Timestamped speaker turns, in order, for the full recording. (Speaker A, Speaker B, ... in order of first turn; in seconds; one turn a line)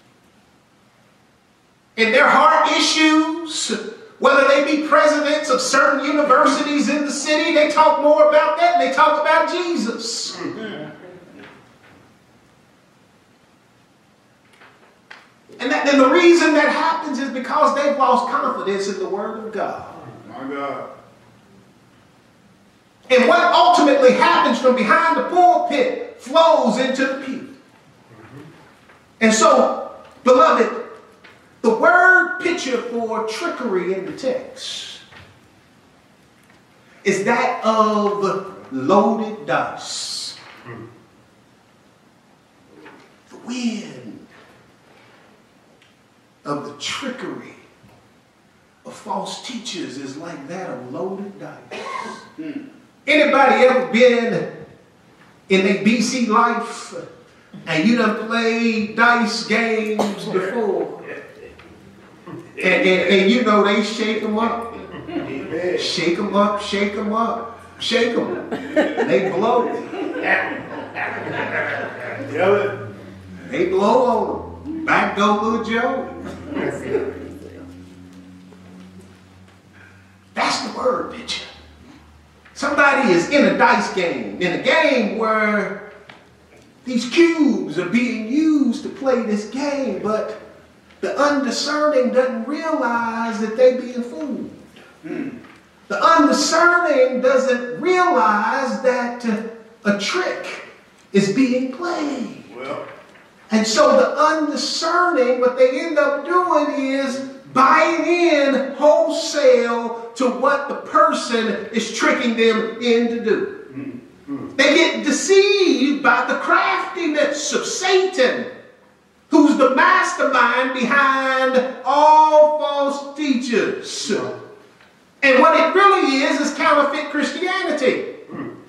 Speaker A: 2.0-10.5
Speaker A: 15.6-20.0
Speaker B: 20.2-20.9
Speaker A: 23.1-27.5
Speaker A: 29.2-30.8
Speaker A: 31.6-35.0
Speaker A: 37.0-40.4
Speaker A: 43.3-44.3
Speaker A: 46.4-47.6
Speaker A: 48.9-52.2
Speaker A: 53.1-54.5
Speaker A: 55.5-57.0
Speaker A: 57.7-61.0
Speaker A: 62.6-64.7
Speaker B: 65.1-65.8
Speaker A: 65.7-70.0
Speaker B: 70.1-72.8
Speaker A: 73.5-76.6
Speaker A: 80.3-81.4
Speaker A: 82.5-85.8
Speaker A: 86.8-90.4
Speaker A: 91.0-94.7
Speaker B: 95.0-95.3
Speaker A: 95.9-102.5
Speaker B: 102.5-102.9
Speaker A: 103.5-113.5
Speaker A: 114.6-118.5
Speaker A: 119.3-124.3
Speaker A: 125.2-128.1